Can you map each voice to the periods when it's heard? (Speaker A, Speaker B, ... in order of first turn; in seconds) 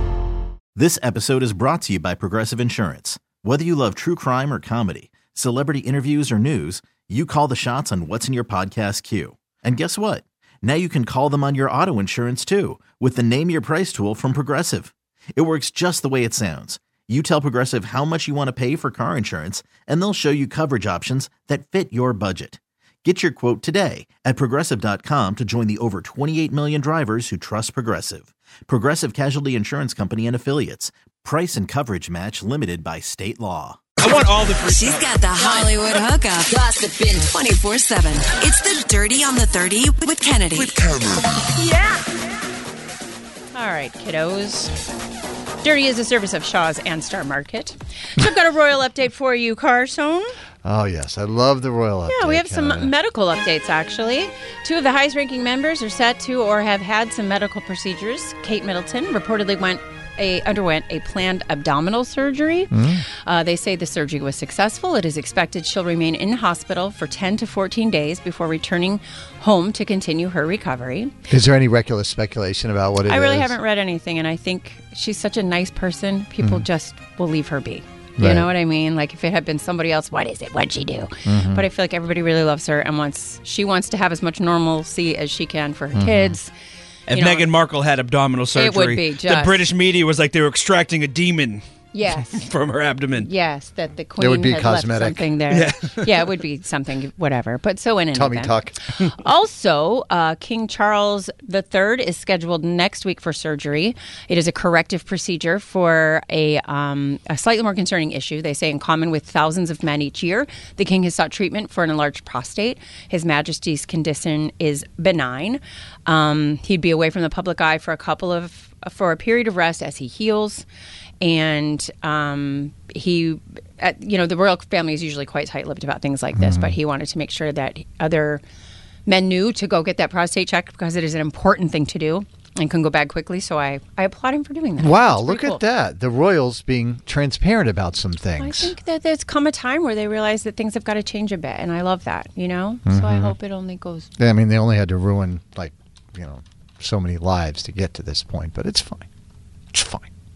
Speaker A: 0.8-34.0
Speaker B: 34.0-35.2, 87.1-93.3, 95.5-96.2
Speaker C: 35.0-38.7, 40.3-40.8
Speaker D: 41.5-42.1, 43.5-44.7, 45.6-50.3, 52.1-71.1, 73.1-86.5, 87.1-87.5, 88.5-89.6, 91.9-92.4, 93.2-120.7, 121.2-128.4, 129.1-135.6, 138.4-144.1
Speaker E: 50.6-52.9, 62.7-63.0, 71.3-73.6, 76.4-76.7, 78.2-78.5, 81.3-81.7, 85.9-86.4, 94.2-95.3, 98.1-98.8, 126.3-126.8, 134.8-138.8, 142.9-143.4, 144.2-149.1, 149.7-150.1